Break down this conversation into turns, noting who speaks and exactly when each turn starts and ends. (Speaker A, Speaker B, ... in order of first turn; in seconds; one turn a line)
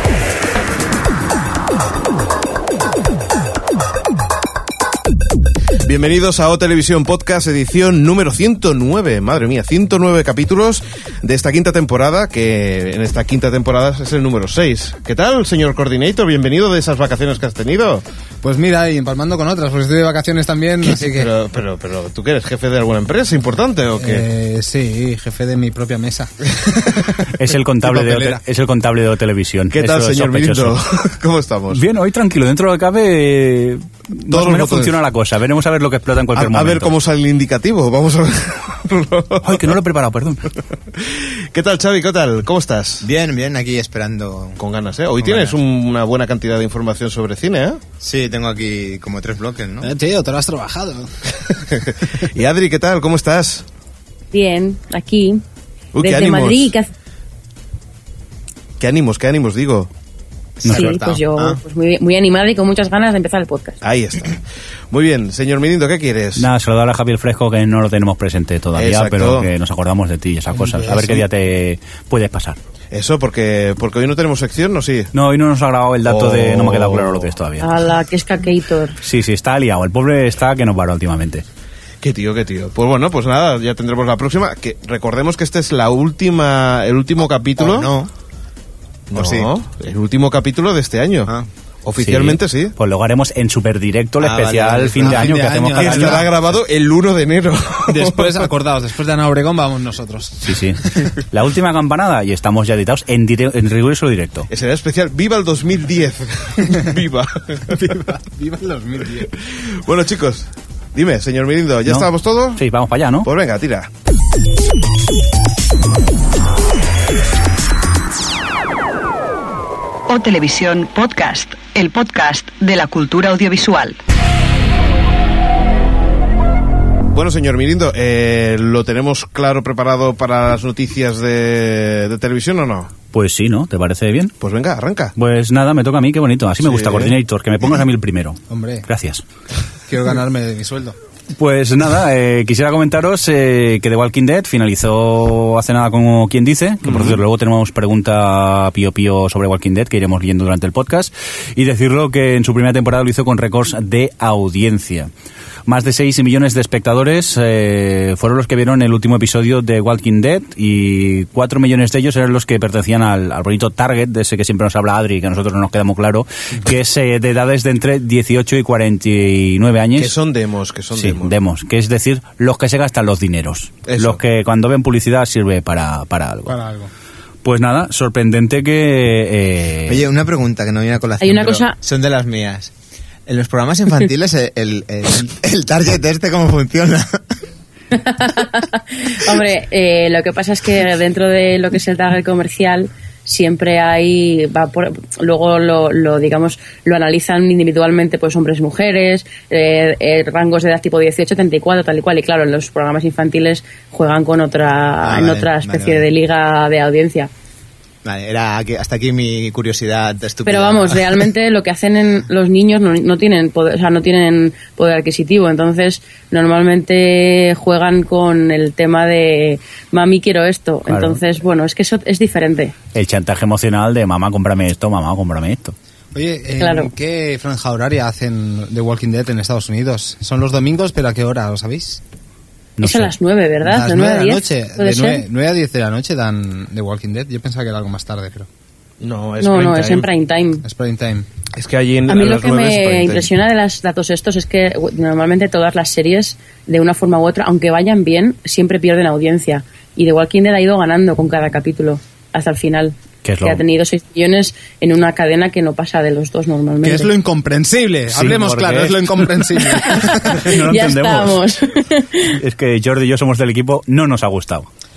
Speaker A: 5.8-18.0
Speaker B: 18.4-21.3
Speaker A: 21.0-24.2
Speaker B: 23.9-27.2
Speaker C: 27.3-30.8
Speaker B: 27.8-28.4
Speaker A: 29.7-31.8
Speaker C: 31.7-36.9
Speaker A: 34.3-34.9
Speaker A: 36.3-39.7
Speaker C: 39.4-40.5
Speaker A: 41.0-43.0
Speaker D: 43.0-44.6
Speaker A: 44.6-47.8
Speaker D: 45.2-45.6
Speaker D: 48.0-49.9
Speaker B: 49.8-51.5
Speaker A: 51.7-53.6
Speaker E: 54.3-55.4
Speaker A: 55.9-56.7
Speaker E: 56.0-56.9
Speaker A: 58.8-59.9
Speaker D: 60.6-61.6
Speaker C: 60.6-61.0
Speaker E: 60.6-63.8
Speaker A: 63.8-66.5
Speaker C: 66.4-72.6
Speaker A: 68.7-69.5
Speaker A: 70.9-71.2
Speaker A: 72.9-75.1
Speaker C: 75.1-77.7
Speaker A: 76.0-77.3
Speaker E: 77.6-79.0
Speaker C: 79.0-81.4
Speaker A: 82.0-87.9
Speaker D: 87.2-88.1
Speaker A: 89.1-91.3
Speaker D: 89.1-89.5
Speaker A: 91.8-92.7
Speaker C: 92.0-96.2
Speaker D: 94.2-95.3
Speaker B: 95.0-96.3
Speaker A: 95.7-98.4
Speaker B: 97.9-101.0
Speaker C: 100.4-104.5
Speaker A: 104.5-107.8
Speaker B: 107.7-109.3
Speaker A: 109.5-112.6
Speaker C: 111.8-113.3
Speaker A: 113.2-113.9
Speaker F: 120.1-124.0
Speaker A: 127.1-132.9
Speaker C: 133.1-134.3
Speaker A: 134.4-135.1
Speaker C: 135.2-139.2
Speaker A: 136.6-137.1
Speaker B: 138.5-138.8
Speaker B: 139.9-140.9
Speaker C: 141.3-155.1
Speaker A: 146.9-147.2
Speaker C: 155.7-170.1
Speaker A: 169.9-171.3
Speaker C: 170.9-176.5
Speaker A: 173.9-174.2
Speaker B: 176.4-176.9
Speaker C: 177.4-180.0
Speaker D: 179.9-182.7
Speaker E: 181.2-181.8
Speaker D: 183.3-187.2
Speaker E: 187.9-207.3
Speaker D: 205.0-206.1
Speaker D: 208.0-211.2
Speaker E: 210.4-222.7
Speaker C: 220.9-221.2
Speaker C: 222.9-225.7
Speaker B: 226.1-232.0
Speaker E: 226.6-226.9
Speaker C: 232.8-233.1
Speaker E: 232.8-235.2
Speaker B: 233.6-238.5
Speaker A: 239.0-240.1
Speaker E: 239.4-240.6
Speaker B: 240.6-241.3
Speaker A: 241.5-243.3
Speaker E: 242.1-257.1
Speaker C: 253.2-253.6
Speaker B: 256.8-260.5
Speaker C: 258.1-259.3
Speaker E: 259.8-262.4
Speaker C: 260.0-261.4
Speaker C: 262.3-264.7